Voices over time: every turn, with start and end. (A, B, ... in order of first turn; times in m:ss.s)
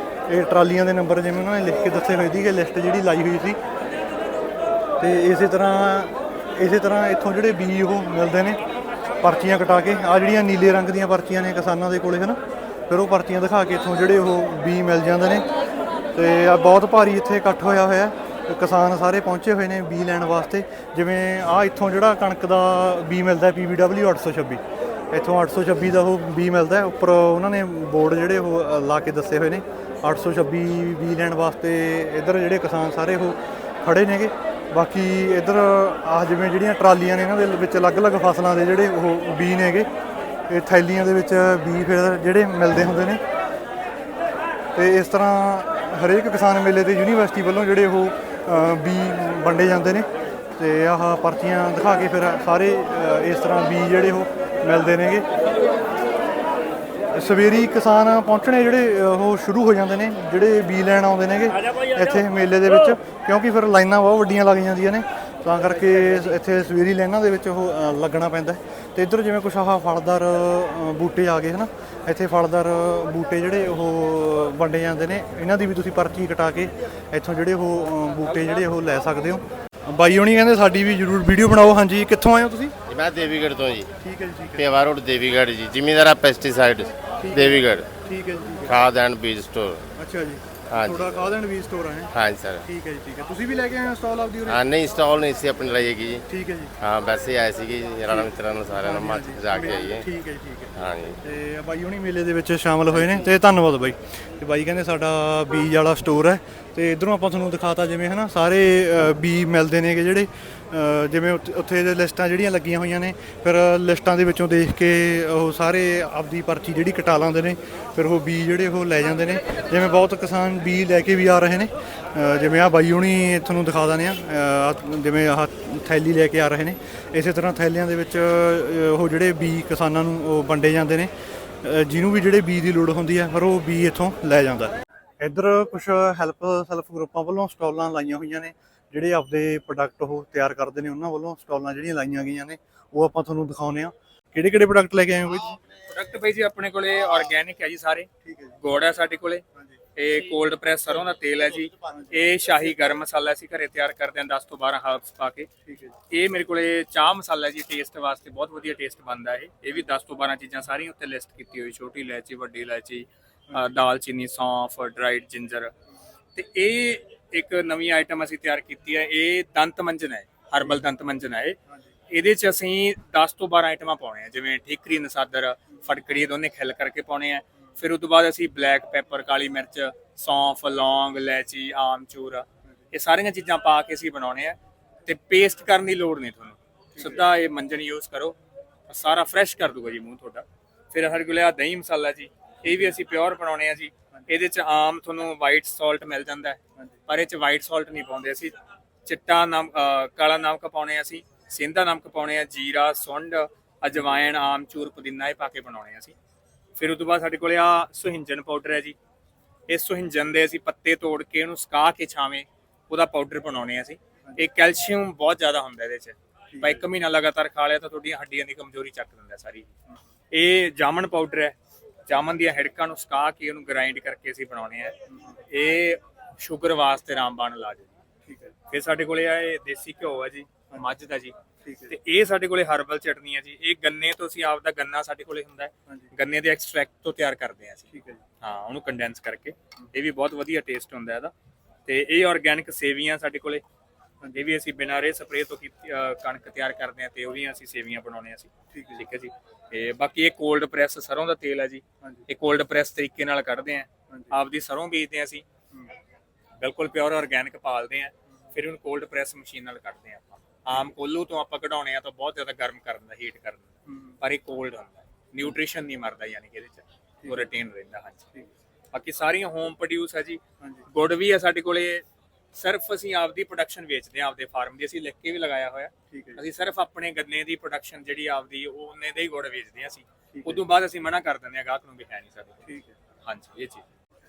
0:00.3-0:03.6 A
0:05.0-0:08.6 A
0:09.2-0:15.5 A
0:16.1-0:39.9 A
0:40.5-0:43.2 A
0:44.8-0:55.3 A
0:57.1-1:22.8 A
1:22.9-1:23.9 B
1:24.0-1:24.6 A
1:24.6-1:27.9 B
1:27.2-1:28.8 A
1:28.7-1:29.9 B
1:30.0-1:32.1 A
1:30.7-1:31.2 B
1:32.1-1:32.6 B
1:32.6-1:34.6 A
1:34.5-1:36.2 B
1:36.3-1:36.8 A
1:36.8-1:40.1 B
1:38.1-2:11.1 A
1:40.8-1:41.2 B
1:42.9-1:43.2 B
2:11.6-2:25.6 A
2:25.9-2:28.1 C
2:28.2-2:28.6 A
2:28.6-2:29.4 C
2:30.0-2:35.5 C
2:31.8-2:32.3 A
2:35.6-2:36.0 A
2:36.1-2:45.7 C
2:46.4-2:51.6 C
2:52.1-3:08.4 C
3:08.9-3:18.6 C
3:19.1-3:26.2 C
3:26.8-3:29.0 C
3:29.7-3:39.7 C
3:36.5-3:36.8 A
3:40.3-3:41.6 C
3:42.1-3:45.0 C
3:45.1-3:45.4 A
3:45.5-3:47.9 C
3:48.3-3:48.5 A
3:48.7-3:51.3 C
3:51.6-3:52.0 A
3:51.9-4:01.3 C
3:57.9-3:58.2 A
4:01.9-4:03.6 C
4:04.4-4:15.4 C
4:08.7-4:09.0 A
4:16.6-4:28.2 C
4:23.9-4:24.1 A
4:28.9-4:32.0 C
4:32.6-4:42.6 C
4:36.1-4:36.4 A
4:40.3-4:40.6 A
4:42.7-4:42.9 A
4:43.2-4:43.8 C